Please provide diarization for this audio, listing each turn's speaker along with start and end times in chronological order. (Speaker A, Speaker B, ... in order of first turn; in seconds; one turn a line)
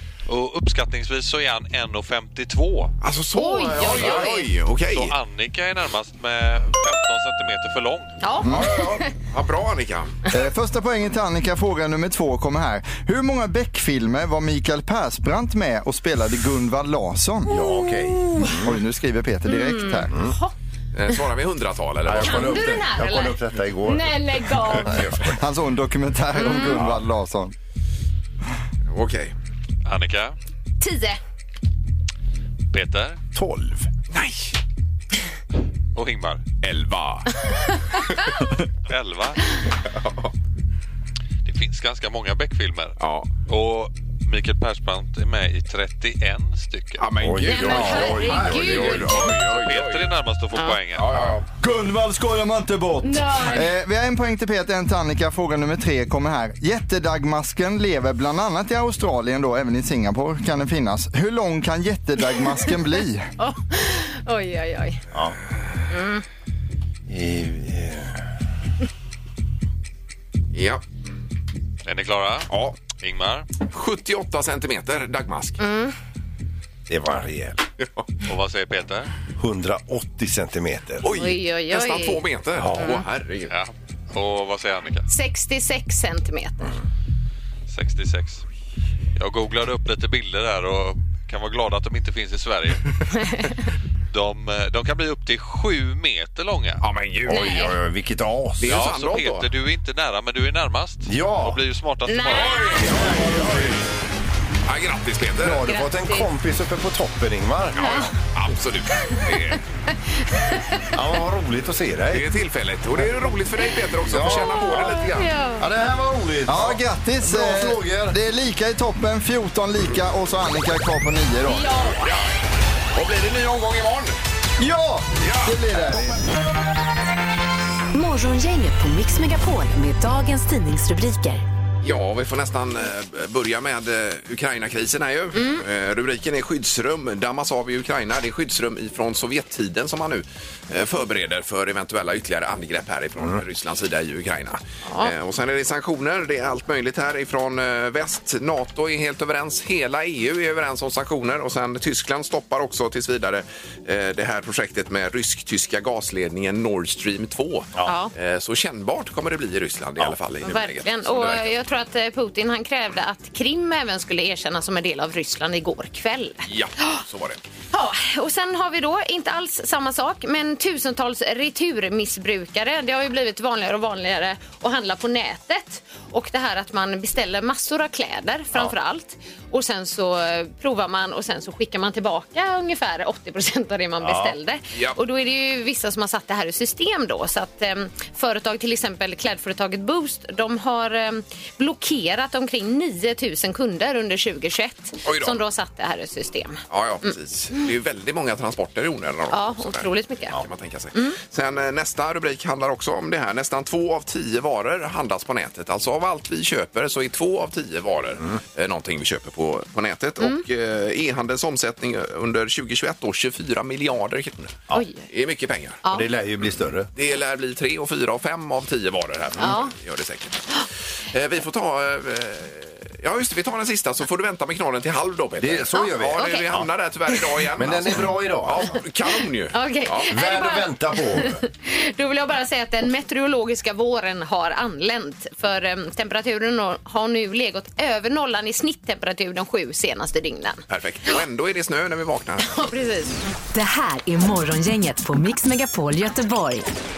Speaker A: 0.3-2.9
Speaker B: 3.0-5.1
Speaker C: 3.4-4.5
Speaker A: 3.9-4.3
Speaker A: 4.9-8.2
Speaker C: 8.2-9.1
Speaker D: 8.4-8.8
Speaker B: 8.5-10.2
Speaker D: 10.3-17.6
Speaker E: 17.5-18.8
Speaker D: 18.5-20.1
Speaker C: 19.5-20.5
Speaker B: 20.9-22.6
Speaker E: 22.0-25.4
Speaker C: 22.2-25.0
Speaker D: 25.3-27.5
Speaker C: 26.4-26.8
Speaker B: 28.9-29.3
Speaker A: 29.9-30.3
Speaker C: 30.8-31.2
Speaker A: 32.7-33.2
Speaker E: 33.3-33.9
Speaker B: 34.1-34.5
Speaker A: 35.9-36.4
Speaker B: 36.6-37.4
Speaker A: 38.9-39.4
Speaker B: 39.9-40.3
Speaker A: 41.4-47.1
Speaker B: 43.0-43.3
Speaker B: 47.0-50.1
Speaker E: 47.2-49.3
Speaker C: 47.4-49.4
Speaker A: 49.3-51.3
Speaker B: 50.9-51.4
Speaker D: 51.6-63.3
Speaker C: 53.0-53.7
Speaker C: 63.4-65.0
Speaker C: 65.9-66.2
Speaker E: 67.1-68.2
Speaker B: 70.5-70.8
Speaker A: 71.8-73.5
Speaker B: 72.5-72.8
Speaker B: 73.7-75.6
Speaker C: 75.6-75.9
Speaker E: 76.9-77.6
Speaker B: 77.8-78.1
Speaker A: 78.2-79.1
Speaker E: 79.4-81.1
Speaker B: 81.0-83.5
Speaker C: 81.1-82.2
Speaker E: 82.6-83.0
Speaker A: 83.5-85.1
Speaker C: 85.1-86.7
Speaker A: 87.7-88.4
Speaker A: 89.2-93.5
Speaker A: 94.1-96.8
Speaker B: 96.8-97.6
Speaker E: 97.3-98.8
Speaker C: 97.3-97.8
Speaker B: 98.6-99.5
Speaker A: 98.6-103.2
Speaker E: 101.1-101.6
Speaker C: 102.1-103.1
Speaker B: 102.3-103.8
Speaker B: 104.7-105.7
Speaker E: 105.4-108.1
Speaker C: 105.6-106.3
Speaker B: 107.7-109.6
Speaker C: 107.8-108.1
Speaker C: 110.1-111.0
Speaker E: 110.9-112.2
Speaker B: 112.1-115.3
Speaker E: 114.0-115.1
Speaker C: 114.2-115.6
Speaker E: 115.6-118.2
Speaker D: 116.5-121.7
Speaker C: 121.5-122.2
Speaker B: 122.9-124.2
Speaker D: 124.6-126.2
Speaker B: 125.2-125.5
Speaker F: 127.9-131.4
Speaker B: 131.8-161.5
Speaker C: 144.9-145.1
Speaker C: 157.8-158.1
Speaker C: 160.4-167.0
Speaker B: 166.4-167.4
Speaker C: 167.7-196.6
Speaker E: 184.0-184.3
Speaker B: 195.0-195.4
Speaker B: 196.7-215.8
Speaker C: 199.3-200.3
Speaker C: 214.7-215.0
Speaker E: 215.9-216.9
Speaker B: 216.9-230.1
Speaker C: 219.4-219.7
Speaker E: 225.4-226.7
Speaker C: 225.8-226.4
Speaker E: 227.6-228.8
Speaker C: 229.5-241.1
Speaker E: 230.1-231.4
Speaker B: 240.7-242.6
Speaker C: 242.4-243.2
Speaker F: 243.5-246.7